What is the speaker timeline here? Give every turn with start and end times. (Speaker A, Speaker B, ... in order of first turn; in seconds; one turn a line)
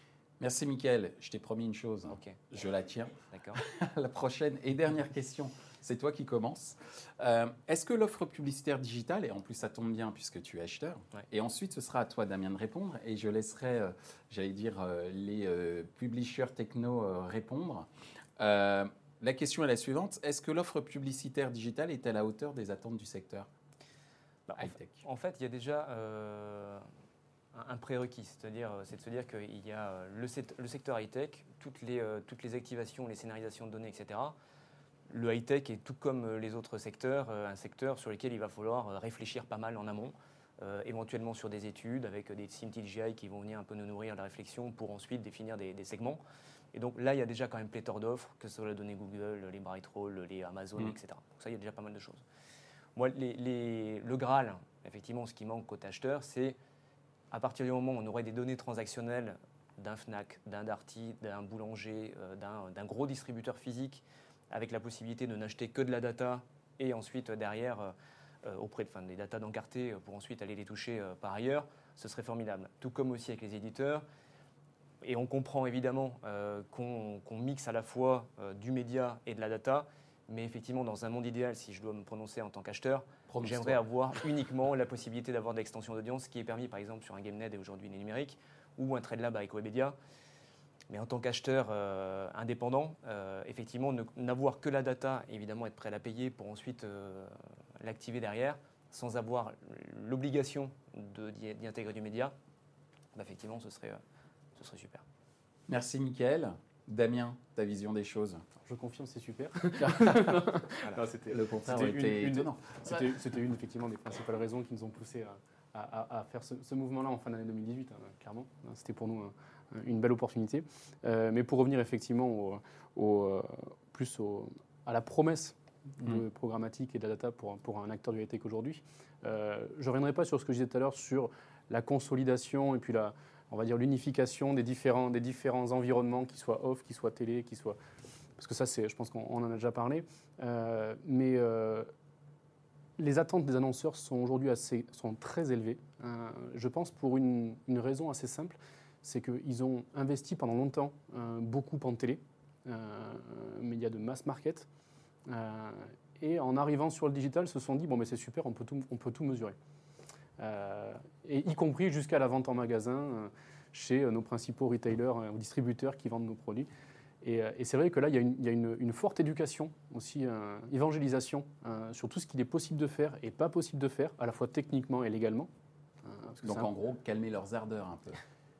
Speaker A: 0.4-23.5
Speaker B: 2.1-2.4
Speaker B: 3.3-3.6
Speaker B: 24.5-26.9
Speaker A: 24.6-25.0
Speaker B: 27.5-34.4
Speaker B: 35.1-46.2
Speaker B: 46.7-52.2
Speaker B: 53.0-56.6
Speaker B: 57.3-74.0
Speaker B: 75.0-90.0
Speaker A: 83.3-83.8
Speaker B: 90.9-102.3
Speaker B: 103.1-104.0
Speaker B: 104.5-105.0
Speaker A: 105.7-108.4
Speaker C: 108.6-137.8
Speaker A: 109.9-110.3
Speaker A: 111.3-113.0
Speaker C: 138.4-141.9
Speaker C: 143.0-154.7
Speaker C: 155.3-159.6
Speaker C: 160.4-166.7
Speaker C: 167.2-175.5
Speaker C: 176.0-176.7
Speaker A: 176.4-178.2